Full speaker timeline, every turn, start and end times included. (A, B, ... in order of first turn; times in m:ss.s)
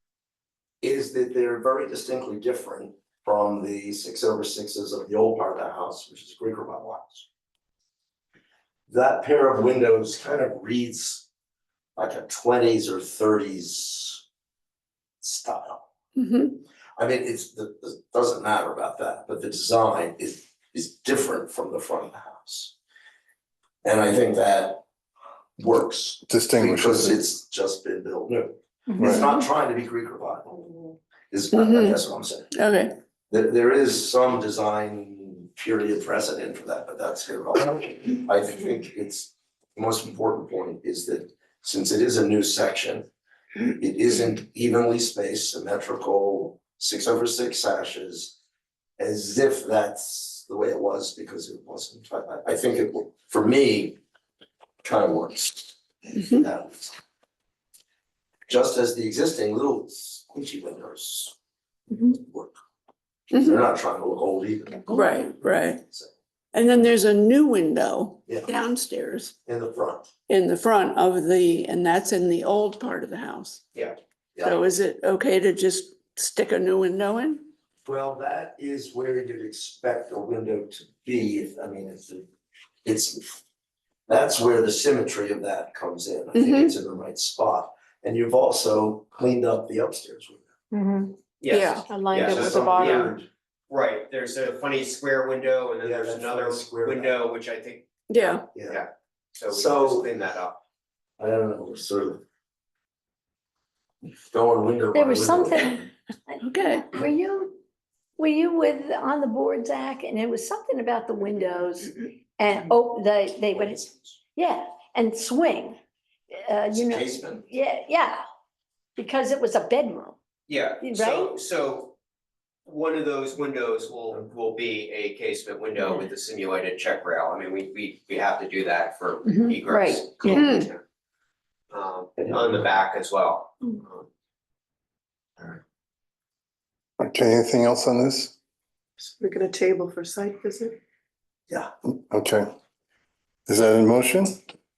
0:00.8-0:07.3 A
0:08.9-0:11.3 A
0:12.0-0:14.2 A
0:15.2-0:15.8 A
0:16.2-0:16.5 B
0:17.0-0:22.8 A
0:23.8-0:24.8 A
0:25.6-0:30.6 A
0:26.3-0:27.2 C
0:29.0-0:29.3 C
0:31.3-0:32.5 A
0:31.5-0:32.0 B
0:32.5-0:32.9 B
0:33.3-0:43.1 A
0:43.6-0:48.4 A
0:49.0-0:54.0 A
0:54.8-0:56.9 A
0:58.5-1:01.4 A
1:02.0-1:02.6 A
1:03.3-1:03.6 B
1:03.4-1:06.1 A
1:04.9-1:05.8 B
1:06.5-1:09.3 B
1:09.4-1:10.1 A
1:10.3-1:13.6 B
1:14.4-1:14.6 A
1:14.4-1:17.5 B
1:17.8-1:22.3 A
1:22.8-1:23.4 A
1:24.1-1:30.5 A
1:26.3-1:26.8 B
1:30.7-1:31.2 D
1:31.4-1:33.2 E
1:31.5-1:31.8 B
1:31.9-1:33.2 D
1:32.2-1:33.3 A
1:33.7-1:40.6 E
1:35.8-1:37.2 A
1:38.1-1:38.4 B
1:38.5-1:38.8 A
1:39.5-1:40.1 A
1:41.2-1:42.2 A
1:44.3-1:45.9 A
1:44.9-1:47.6 F
1:46.4-1:46.8 B
1:48.2-1:55.8 F
1:53.5-1:54.2 A
1:56.3-1:58.2 F
1:56.7-1:57.4 A
1:59.0-2:00.2 F
2:00.5-2:02.0 E
2:00.8-2:01.4 F
2:02.7-2:10.8 E
2:09.4-2:10.5 F
2:10.3-2:10.7 B
2:11.7-2:14.0 E
2:12.2-2:12.6 A
2:17.0-2:18.4 C
2:19.0-2:20.8 D
2:21.9-2:22.5 C
2:23.5-2:24.4 C